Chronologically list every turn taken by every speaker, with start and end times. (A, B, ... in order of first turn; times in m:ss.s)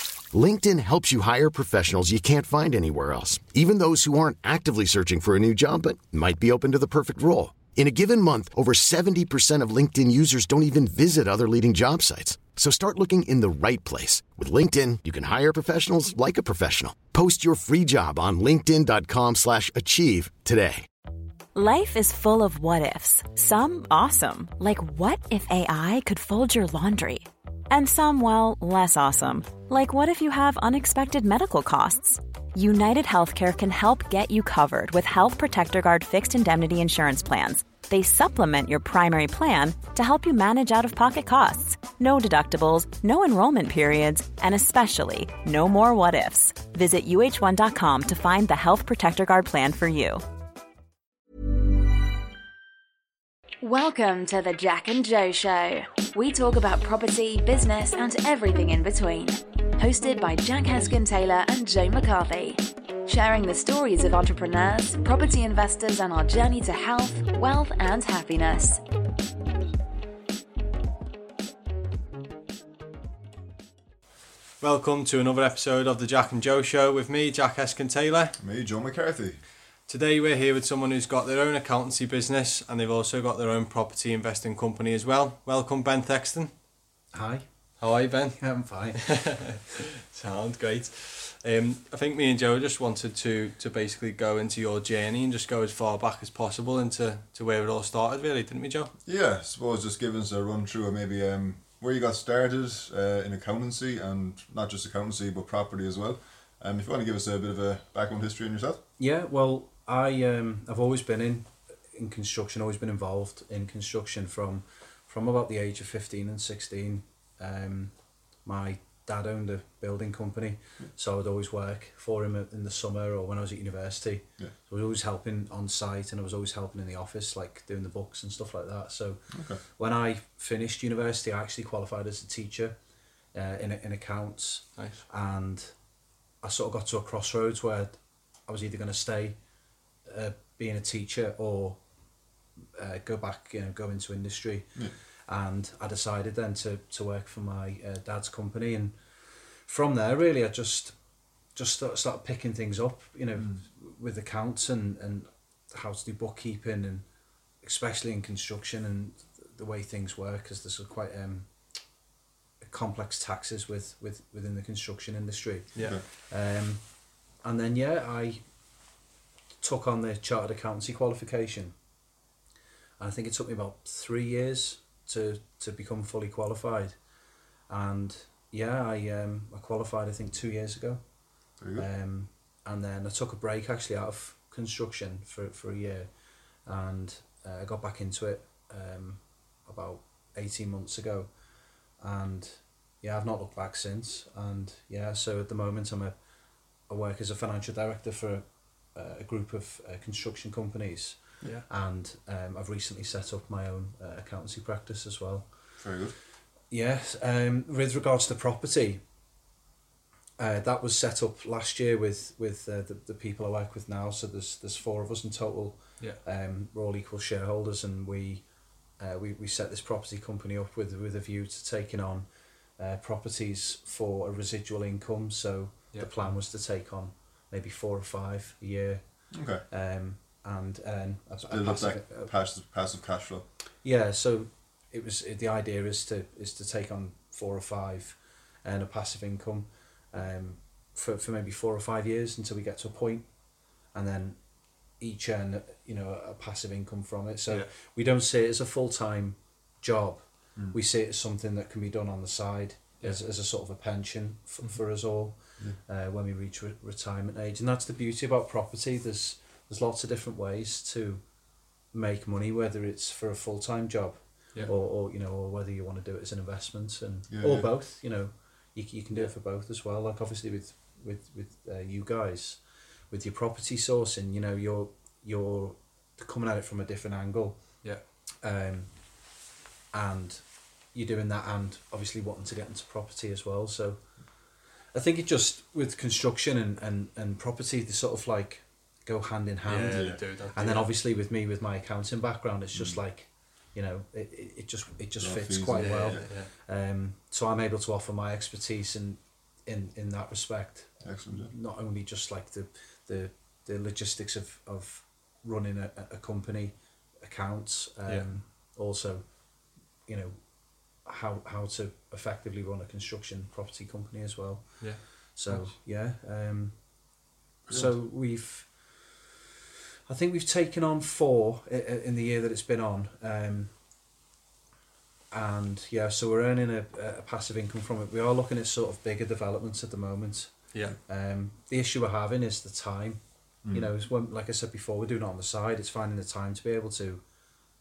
0:00.3-0:20.9 A
0:21.5-0:50.2 B
0:53.6-1:08.8 C
1:14.6-1:18.4 D
1:18.4-1:19.4 E
1:19.8-1:26.5 D
1:27.1-1:29.5 F
1:27.8-1:38.9 D
1:39.0-1:48.8 E
1:49.0-2:12.8 F
2:09.3-2:09.6 E
2:13.3-2:15.8 F
2:14.8-2:15.0 D
2:16.4-2:19.4 F
2:20.0-2:21.8 F
2:22.7-2:31.0 F
2:31.5-2:37.1 F
2:37.6-2:41.5 F
2:42.6-2:48.4 F
2:45.8-2:46.0 E
2:49.6-2:51.8 F
2:53.0-2:57.0 F
2:57.7-3:06.1 F
3:01.6-3:01.9 E
3:06.6-3:11.3 F
3:12.0-3:16.2 F
3:16.9-3:25.5 F
3:25.8-3:26.2 E
3:26.7-3:29.0 F
3:30.4-3:52.3 F
3:49.3-3:49.6 E
3:51.4-3:53.5 E
3:53.8-4:21.3 F
4:21.8-4:37.9 F
4:27.3-4:27.7 E
4:38.4-4:39.2 F
4:39.9-5:17.1 F
4:49.6-4:50.9 D
4:49.9-4:50.2 E
4:52.7-4:53.0 E
4:55.2-4:56.3 E
4:55.7-4:56.5 D
5:01.0-5:01.5 E
5:14.8-5:15.7 D
5:17.7-5:19.2 F
5:17.7-5:18.0 E
5:20.1-5:23.8 F
5:25.3-5:37.2 F
5:33.6-5:33.9 E